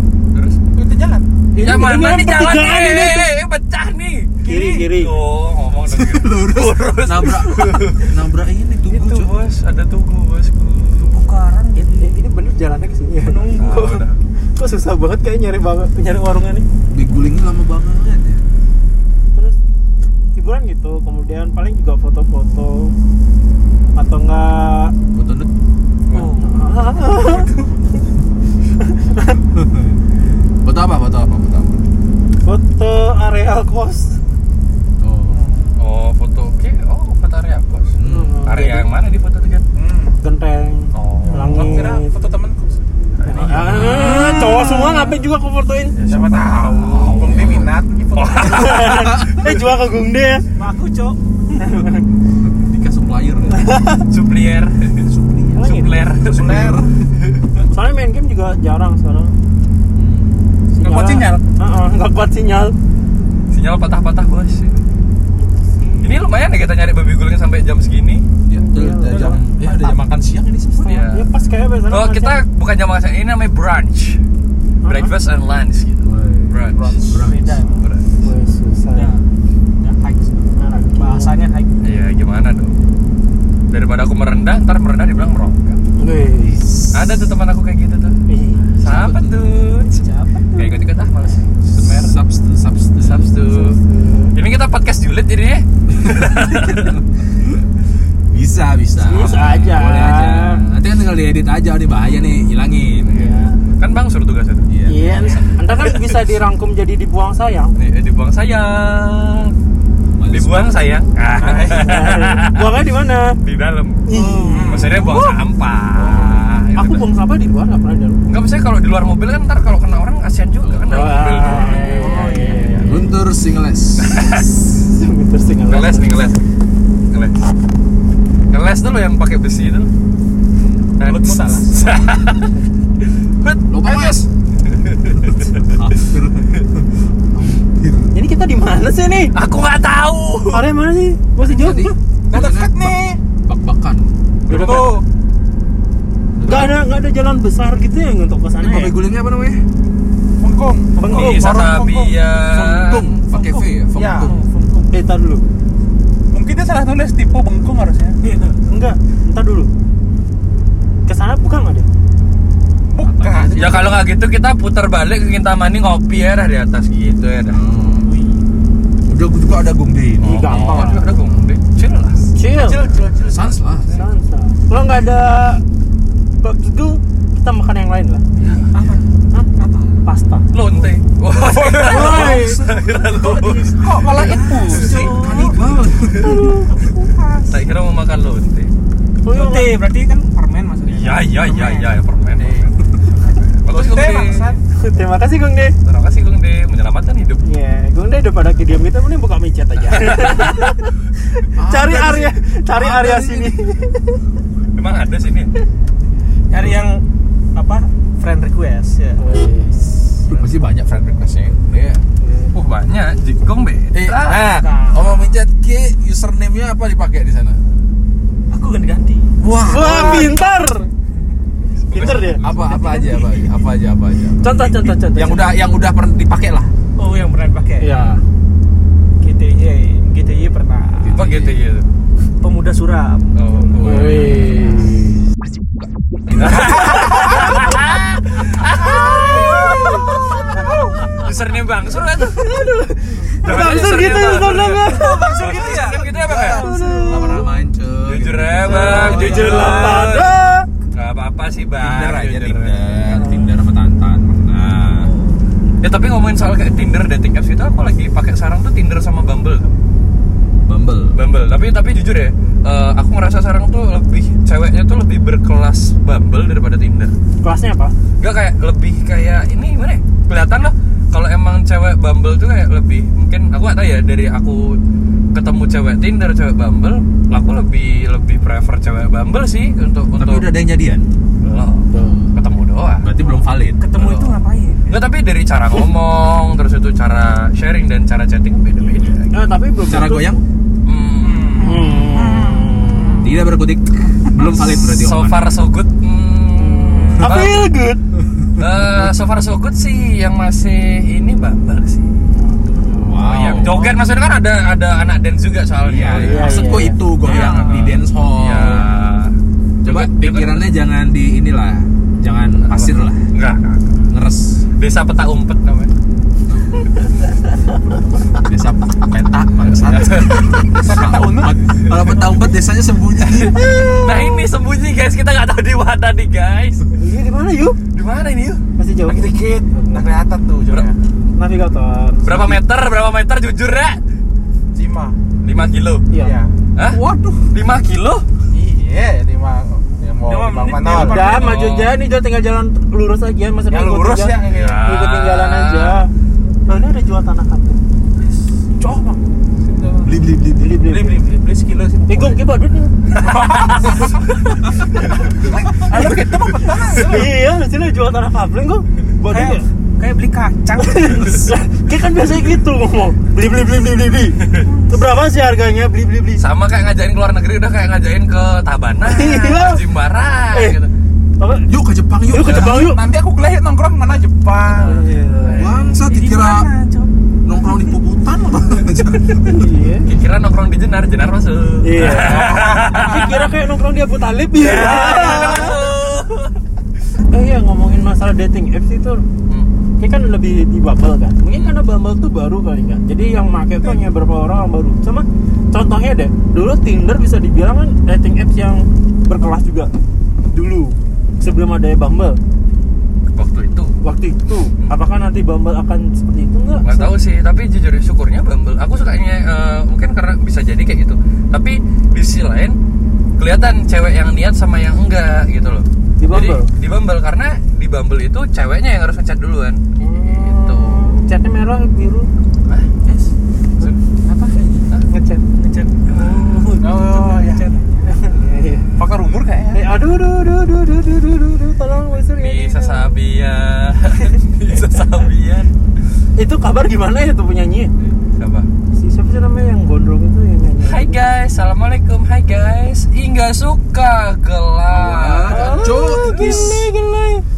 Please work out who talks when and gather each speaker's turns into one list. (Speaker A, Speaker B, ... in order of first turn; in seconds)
Speaker A: 0.3-0.6, 1.6-4.3, 4.9-8.1, 8.9-11.3, 13.6-14.2, 35.8-39.6, 40.9-42.0, 43.1-43.9, 45.9-49.3, 54.1-55.1, 55.6-56.8, 63.5-64.8, 66.0-68.2, 70.8-71.2, 71.9-74.2, 74.9-76.9, 77.8-78.1, 81.8-82.8, 83.7-85.8, 86.9-88.2, 88.8-90.0, 90.5-92.2, 93.0-93.8, 94.3-97.0, 103.0-104.7, 105.3-106.1, 107.8-109.5, 110.3-112.7, 113.4-114.0, 114.7-117.0, 118.3-122.9, 124.0-124.5, 125.7-126.4, 127.1-127.3, 128.5-129.9, 131.0-132.6, 133.4-134.1, 134.7-135.7, 139.3-140.7, 144.5-144.8, 151.0-153.2, 163.5-167.6, 170.2-172.2, 178.4-178.7, 180.5-183.9, 187.5-188.7, 190.9-194.5, 195.8-197.4, 199.9-200.7, 204.8-205.5, 212.5-214.5, 221.8-222.7, 231.2-231.8, 233.3-234.5, 236.3-240.2, 241.1-242.6, 243.4-244.9, 245.4-246.7, 248.1-250.3, 250.9-252.9, 255.8-259.8, 261.1-267.1, 268.2-274.8, 275.3-280.5, 281.4-283.1, 284.0-284.4, 284.9-289.3, 290.9-291.6, 294.6-297.7, 298.6-302.3, 303.2-309.3, 309.8-310.7, 312.6-314.0, 314.8-315.9, 319.7-320.7, 323.2-326.8, 327.9-328.6, 332.2-334.0, 335.4-336.1, 336.8-338.2, 341.3-341.9, 344.5-345.9, 353.3-354.1, 366.4-370.9, 375.4-376.0, 380.1-383.4, 384.6-386.5, 403.3-403.9, 406.8-412.8, 413.4-421.2, 432.3-435.7, 438.3-438.7, 440.8-446.7
Speaker B: 0.7-1.3, 39.7-40.2, 41.5-42.8, 46.0-48.9, 56.2-56.9, 60.8-61.4, 76.7-77.2, 111.4-112.0, 114.5-115.2, 131.0-132.1, 133.9-134.2, 142.3-143.2, 144.5-145.0, 150.4-152.2, 153.9-154.3, 156.3-158.2, 162.9-164.0, 170.5-170.9, 172.5-173.6, 181.5-181.9, 183.3-185.4, 191.5-192.7, 193.6-194.6, 240.5-240.9, 249.2-249.4, 291.2-291.8, 303.6-303.9, 307.2-307.8, 320.7-321.6, 329.1-331.0, 334.7-335.2, 336.1-337.5, 338.5-341.4, 343.7-344.9, 348.7-350.2, 350.8-352.4, 353.2-354.2, 355.3-357.3, 372.5-374.9, 382.1-383.3, 426.8-427.6, 429.0-429.8
Speaker C: 1.5-3.3, 4.4-5.1, 11.8-14.0, 14.6-16.6, 20.4-22.9, 23.9-24.9, 26.4-27.5, 28.8-29.4, 32.4-34.2, 38.0-38.9, 40.2-42.1, 43.2-46.0, 48.4-50.4, 51.6-52.0, 53.5-54.0, 55.5-55.9, 57.7-59.3, 60.7-62.7, 68.6-69.4, 70.9-72.4, 74.8-75.1, 78.2-79.1, 80.5-81.3, 86.0-86.9, 88.3-88.7, 93.5-94.3, 99.0-100.6, 103.1-103.6, 104.9-107.7, 111.7-113.3, 114.0-115.1, 116.8-118.2, 120.9-123.1, 124.4-126.3, 138.1-139.3, 140.5-141.9, 144.5-144.8, 146.4-148.9, 150.9-151.6, 154.9-155.4, 158.7-159.7, 161.1-161.9, 170.2-171.1, 172.3-172.8, 173.9-175.6, 176.4-178.3, 180.1-180.5, 186.2-187.1, 189.2-189.7, 194.8-195.7, 197.4-204.2, 209.2-210.2, 212.2-212.5, 219.7-220.9, 221.9-222.4, 224.4-225.5, 227.8-228.2, 233.8-235.2, 239.4-240.1, 242.2-245.4, 246.4-247.5, 248.7-250.7, 253.1-253.6, 267.4-267.9, 281.9-282.2, 289.3-290.3, 291.6-293.3, 296.5-298.0, 306.1-307.0, 326.9-327.8, 328.8-330.1, 331.4-332.6, 336.1-336.4, 340.9-346.1, 346.7-347.8, 350.6-351.2, 352.1-353.3, 355.9-359.6, 360.8-364.4, 364.9-366.4, 369.0-369.8, 371.4-371.7, 372.2-373.0, 374.7-375.6, 379.4-380.1, 381.8-385.8, 387.3-389.2, 390.0-399.9, 400.5-402.4, 404.0-407.1, 416.2-416.7, 420.0-422.3, 425.1-425.4, 428.1-428.9, 429.7-433.1, 436.4-437.9, 438.9-441.2, 445.5-447.4
Speaker D: 4.4-4.9, 11.0-12.2, 13.2-14.0, 26.1-26.6, 35.3-35.7, 50.6-51.2, 69.1-70.1, 77.2-77.8, 78.9-79.2, 79.8-81.8, 89.9-90.6, 114.1-114.9, 121.5-122.9, 153.3-153.6, 154.2-154.9, 158.2-158.6, 168.0-168.4, 178.7-180.0, 181.8-182.6, 184.8-185.6, 186.8-187.5, 189.3-191.7, 206.5-207.0, 207.5-209.3, 214.3-215.4, 218.5-219.3, 222.0-223.5, 227.0-228.0, 229.2-231.2, 232.4-234.9, 244.6-247.5, 248.9-250.1, 283.2-285.0, 340.3-341.4, 359.3-361.5, 376.0-377.1, 377.6-377.9, 385.0-385.7, 424.3-424.9, 425.6-428.2
Speaker E: 5.9-9.3, 16.9-18.4, 25.1-25.5, 29.5-30.0, 30.6-31.8, 35.0-35.4, 38.0-38.4, 43.3-44.5, 46.9-47.8, 52.4-53.8, 55.0-57.0, 59.9-60.6, 68.5-71.1, 76.0-77.6, 88.8-89.6, 91.7-93.3, 95.9-97.6, 98.3-103.3, 104.7-105.9, 110.1-110.8, 120.6-121.8, 122.8-124.3, 133.7-134.3, 135.2-138.1, 141.4-144.8, 146.3-146.8, 148.6-149.6, 152.4-154.3, 163.0-163.9, 167.4-168.1, 169.1-171.5, 173.3-174.0, 181.8-186.4, 201.6-203.5, 210.3-212.0, 213.9-217.6, 219.4-220.3, 222.1-226.7, 227.9-228.2, 231.0-231.6, 233.7-234.8, 236.3-237.6, 243.4-244.6, 246.0-249.5, 251.8-255.1, 260.7-261.2, 280.2-281.1, 283.0-284.0, 289.8-290.4, 293.2-295.5, 302.9-303.9, 305.8-308.9, 309.8-313.2, 314.1-314.7, 318.4-323.6, 350.0-350.8, 371.7-372.9, 375.6-376.7, 377.4-379.7, 444.9-446.9